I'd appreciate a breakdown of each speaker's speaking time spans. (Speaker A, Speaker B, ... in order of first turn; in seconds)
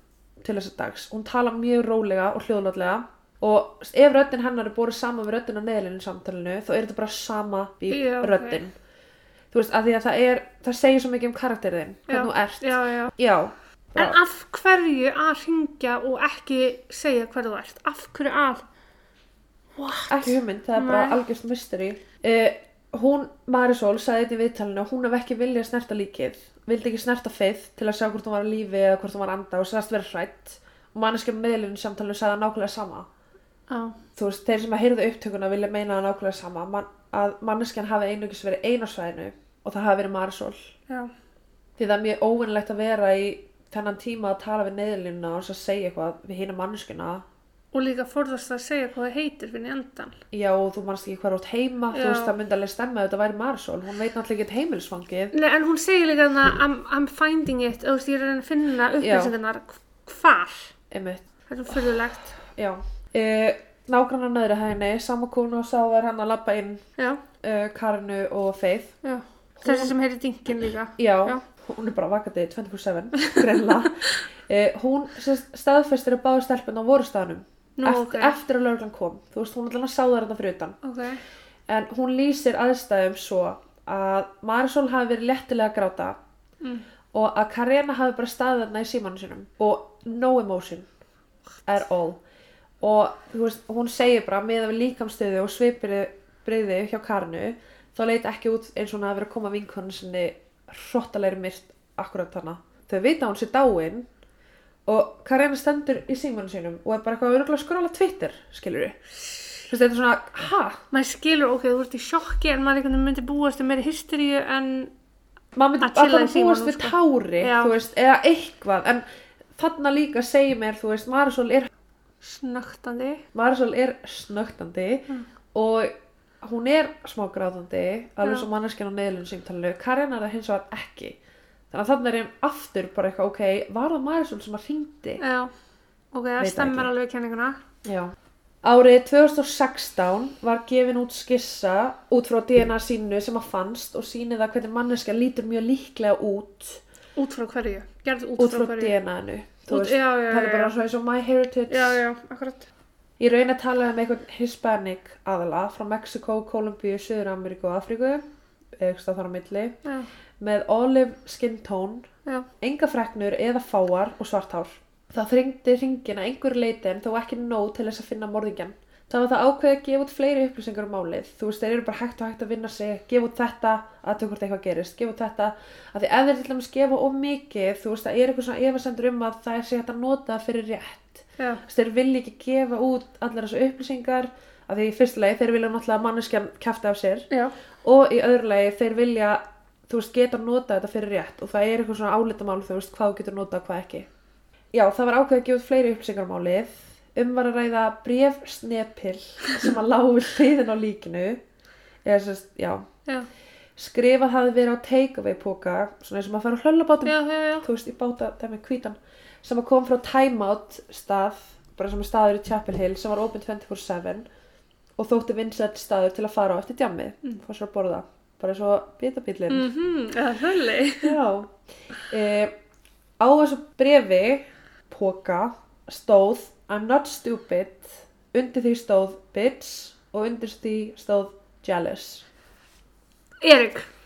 Speaker A: 0.4-8.7, 9.5-14.2, 20.1-33.1, 34.1-40.7, 41.8-47.2, 50.3-55.3, 59.0-59.3, 60.9-61.2, 62.5-66.8, 67.4-68.9, 69.6-69.9, 71.0-80.8, 81.7-86.2, 87.1-90.9, 91.7-92.2, 92.8-104.1, 104.9-109.0, 109.7-110.8, 115.5-119.0, 119.5-121.7, 123.3-131.2, 131.7-135.2, 136.4-136.9, 137.8-146.8, 148.4-152.0, 153.2-158.2, 158.8-159.8, 160.4-162.1, 162.6-187.3, 187.8-194.1, 194.7-201.4, 202.0-202.8, 203.8-214.3, 215.0-219.7, 221.0-222.5, 223.2-232.2
Speaker B: 7.9-8.6, 12.1-13.1, 13.9-18.6, 19.7-21.2, 33.7-34.0, 47.7-50.2, 51.9-52.3, 55.3-60.7, 61.5-62.4, 69.0-71.4, 77.8-78.3, 80.8-81.2, 110.9-114.9, 115.8-117.8, 122.2-123.2, 135.2-135.5, 136.1-137.6, 147.2-148.9, 149.7-150.8, 151.7-152.7, 207.0-207.7, 219.5-221.2, 233.4-233.9